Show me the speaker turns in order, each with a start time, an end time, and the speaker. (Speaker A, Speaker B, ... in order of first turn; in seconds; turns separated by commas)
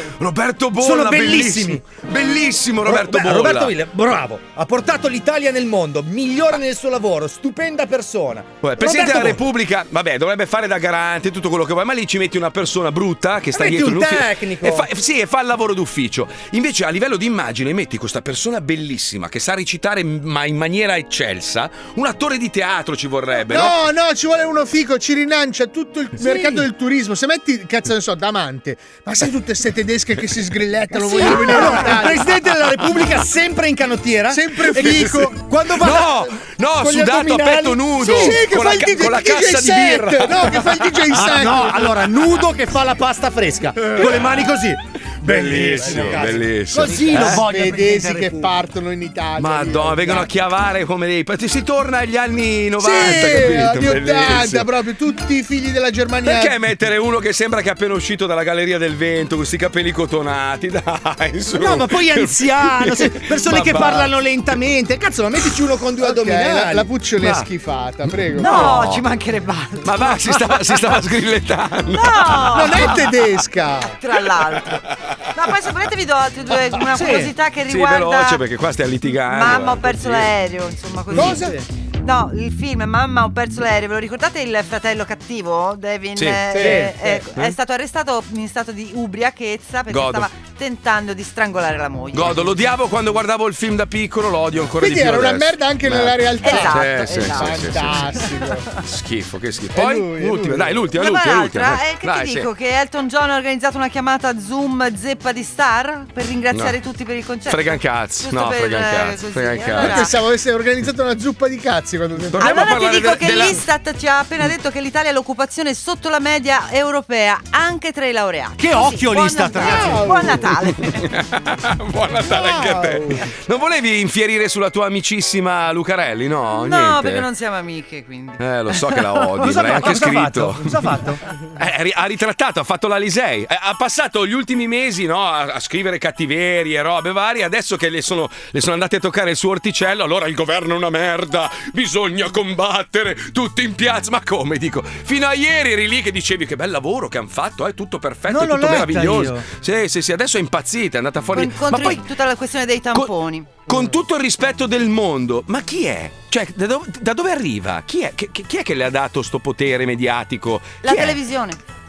Speaker A: 0.2-3.8, Speaker B: 0.8-1.8, Speaker B: 2.8-9.4, Speaker A: 8.6-23.8, Speaker B: 13.5-14.9, Speaker C: 23.5-32.2, Speaker B: 26.2-26.7, Speaker B: 30.9-38.5, Speaker C: 34.3-35.3, Speaker A: 34.7-41.3, Speaker C: 38.0-41.8, Speaker B: 41.1-48.6, Speaker A: 44.0-44.4, Speaker A: 45.2-47.5, Speaker C: 47.3-50.3, Speaker A: 49.4-54.7, Speaker C: 52.8-56.6, Speaker A: 56.2-64.1, Speaker B: 61.5-67.5, Speaker C: 66.0-68.7, Speaker D: 68.4-69.8, Speaker B: 68.4-69.0, Speaker A: 68.4-69.0, Speaker A: 69.8-73.2, Speaker D: 71.9-73.0, Speaker C: 72.5-74.0, Speaker D: 73.9-78.4, Speaker A: 74.7-75.1, Speaker B: 76.9-77.3, Speaker A: 77.7-80.3, Speaker D: 79.3-92.5, Speaker B: 81.1-81.7, Speaker A: 86.2-86.8, Speaker B: 86.5-87.3, Speaker A: 89.9-90.3, Speaker A: 92.1-98.2, Speaker C: 94.8-98.7, Speaker D: 96.4-98.2, Speaker A: 98.8-102.5, Speaker C: 99.7-100.8, Speaker D: 101.0-110.1, Speaker A: 107.5-110.1, Speaker C: 109.8-112.6, Speaker A: 112.3-113.6, Speaker D: 112.4-121.0, Speaker B: 118.6-120.4, Speaker C: 119.8-120.4, Speaker A: 120.8-127.3, Speaker C: 122.8-123.1, Speaker D: 126.5-129.1, Speaker A: 128.4-131.0, Speaker B: 129.4-131.2, Speaker A: 131.6-152.0, Speaker B: 148.3-149.5, Speaker D: 151.3-153.5, Speaker A: 153.7-161.2, Speaker D: 160.8-161.6